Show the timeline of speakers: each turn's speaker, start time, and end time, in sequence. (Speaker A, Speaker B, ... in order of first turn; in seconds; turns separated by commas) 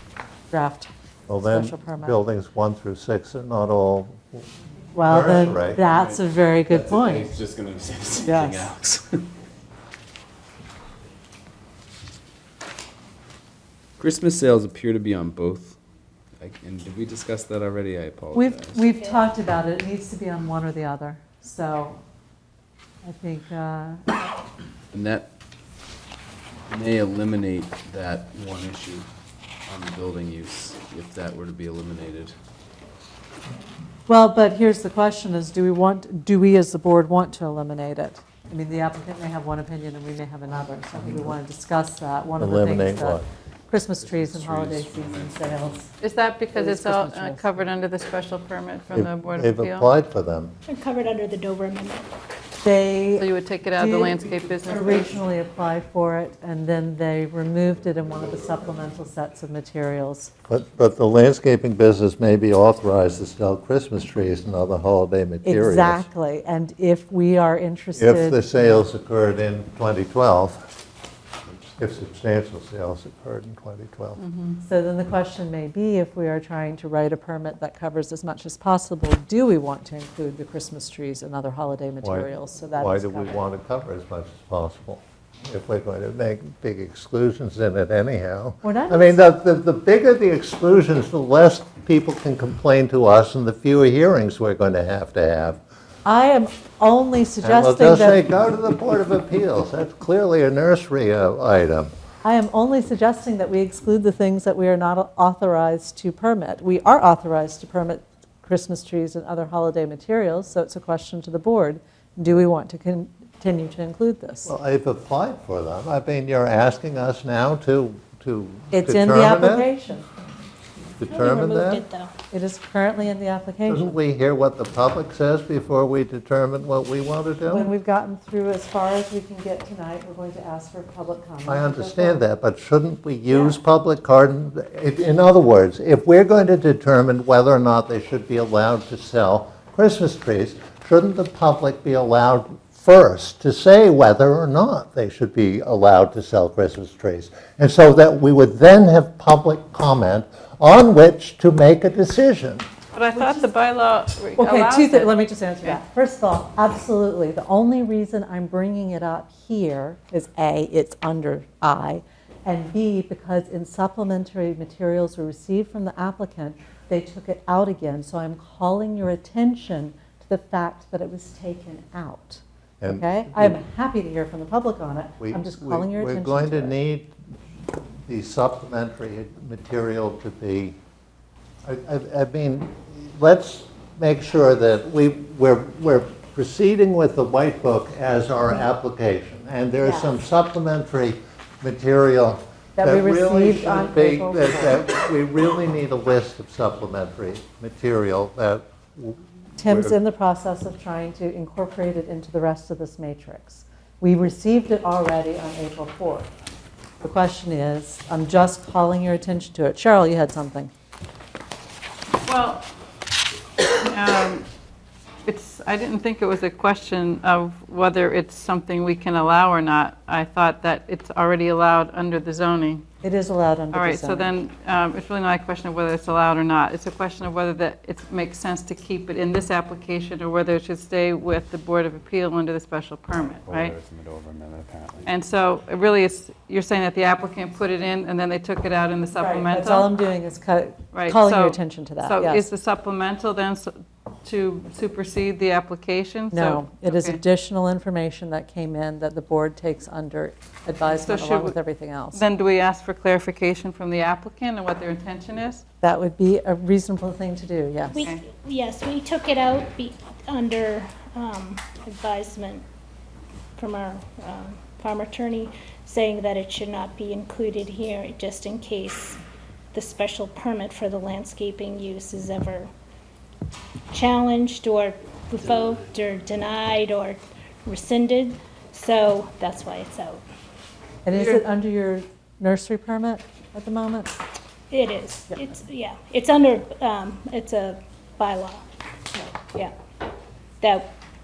Speaker A: 0.5-2.1, Speaker B: 1.3-4.5, Speaker A: 4.9-7.3, Speaker B: 5.0-5.8, Speaker C: 5.9-9.2, Speaker A: 8.2-8.7, Speaker C: 14.0-15.8, Speaker C: 16.4-18.8, Speaker A: 18.3-22.0, Speaker D: 18.8-19.2, Speaker A: 23.0-24.2, Speaker C: 24.9-25.3, Speaker C: 26.7-29.1, Speaker C: 29.7-32.3, Speaker A: 34.1-45.9, Speaker B: 42.4-43.2, Speaker C: 44.0-45.8, Speaker E: 46.0-49.9, Speaker A: 46.5-47.5, Speaker B: 48.9-50.5, Speaker D: 50.7-52.1, Speaker A: 52.6-60.3, Speaker E: 53.1-55.1, Speaker B: 60.5-66.1, Speaker A: 65.4-68.8, Speaker B: 68.0-70.7, Speaker B: 71.8-74.2, Speaker E: 74.2-74.6, Speaker A: 74.6-83.4, Speaker B: 82.0-95.6, Speaker A: 88.6-89.2, Speaker A: 96.0-98.2, Speaker B: 97.4-101.9, Speaker A: 102.2-114.5, Speaker B: 114.4-119.7, Speaker A: 118.7-120.0, Speaker B: 121.0-121.8, Speaker D: 121.1-122.1, Speaker A: 122.3-123.9, Speaker B: 123.7-127.7, Speaker A: 127.5-132.2, Speaker B: 131.4-152.7, Speaker E: 152.9-155.8, Speaker A: 153.1-153.5, Speaker A: 154.4-176.8, Speaker B: 172.8-173.6, Speaker B: 175.2-177.2, Speaker B: 178.1-180.8, Speaker B: 181.6-199.9, Speaker A: 189.8-190.2, Speaker A: 192.8-194.8, Speaker A: 199.6-206.3, Speaker A: 207.0-210.7, Speaker E: 212.2-212.7, Speaker E: 213.6-214.5, Speaker E: 215.2-222.8, Speaker A: 223.0-224.3, Speaker E: 223.7-233.8, Speaker C: 233.1-235.1, Speaker E: 235.0-239.9, Speaker A: 239.2-242.4, Speaker E: 240.9-247.2, Speaker A: 246.3-252.2, Speaker E: 250.8-251.6, Speaker E: 252.1-255.6, Speaker A: 255.8-258.0, Speaker D: 257.9-262.6, Speaker D: 263.6-269.2, Speaker D: 269.7-272.7, Speaker D: 273.9-280.2, Speaker A: 281.0-284.1, Speaker E: 281.1-281.4, Speaker D: 284.7-288.7, Speaker D: 290.6-290.9